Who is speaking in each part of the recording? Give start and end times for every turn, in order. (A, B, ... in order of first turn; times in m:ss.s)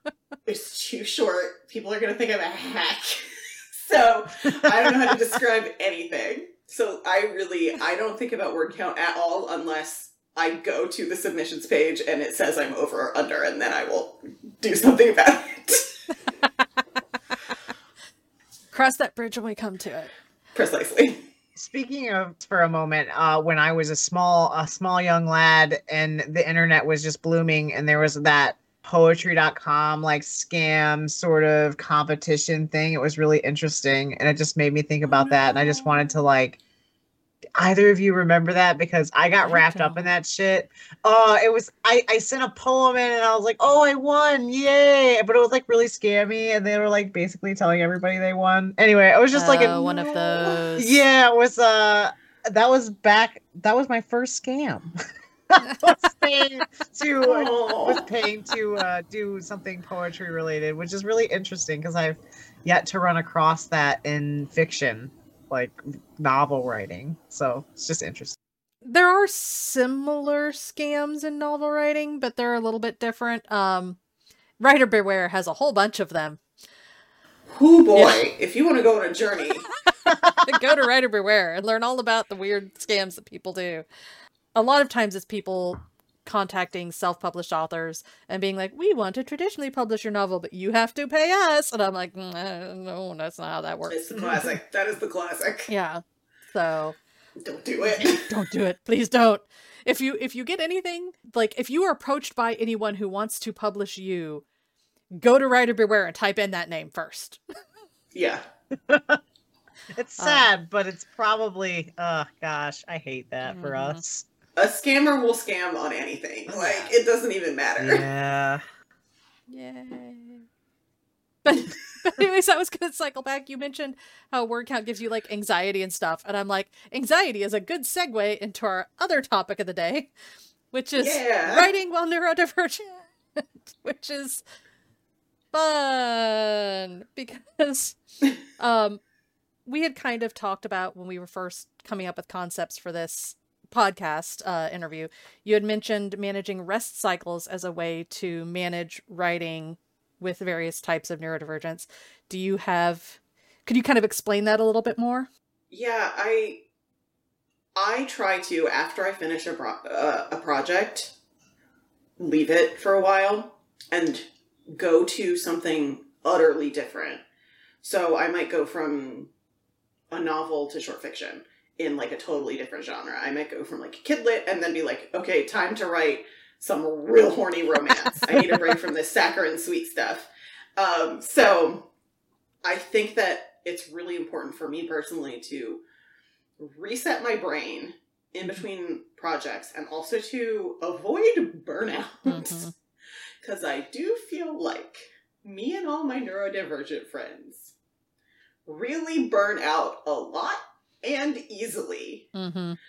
0:00.4-0:15.9 A
0:04.6-0:05.1 B
0:18.7-0:20.1 C
0:20.6-0:21.2 A
0:21.6-0:36.6 B
0:35.0-0:36.2 A
0:37.6-0:49.8 B
0:39.4-0:40.1 C
0:49.3-0:51.0 C
0:49.6-0:50.7 A
0:50.8-0:54.9 B
0:55.5-1:08.4 B
0:57.2-0:58.0 A
1:08.8-1:14.0 C
1:14.6-1:16.4 C
1:17.5-1:19.7 A
1:19.8-1:23.8 C
1:20.1-1:20.7 B
1:24.6-1:34.5 C
1:33.9-1:35.7 A
1:34.2-1:34.5 B
1:35.7-1:37.0 C
1:37.4-1:38.3 A
1:37.8-1:44.4 C
1:45.2-1:47.4 C
1:48.1-1:48.4 A
1:48.9-1:49.2 B
1:49.9-1:54.3 B
1:50.2-1:50.5 C
1:53.4-1:54.0 C
1:54.6-1:58.0 A
1:56.5-1:56.9 B
1:57.8-1:58.6 B
1:59.5-2:00.5 C
2:01.4-2:10.1 C
2:10.7-2:14.4 C
2:11.0-2:11.7 A
2:15.5-2:18.0 C
2:18.6-2:19.0 C
2:19.7-2:35.3 C
2:35.7-2:36.6 A
2:37.8-2:41.1 A
2:42.2-2:47.2 A
2:47.8-2:49.3 A
2:50.1-3:01.9 A
3:02.6-3:05.8 A
3:06.6-3:12.7 A
3:12.2-3:12.7 C
3:13.4-3:17.7 A
3:18.7-3:22.3 A
3:22.4-3:22.8 C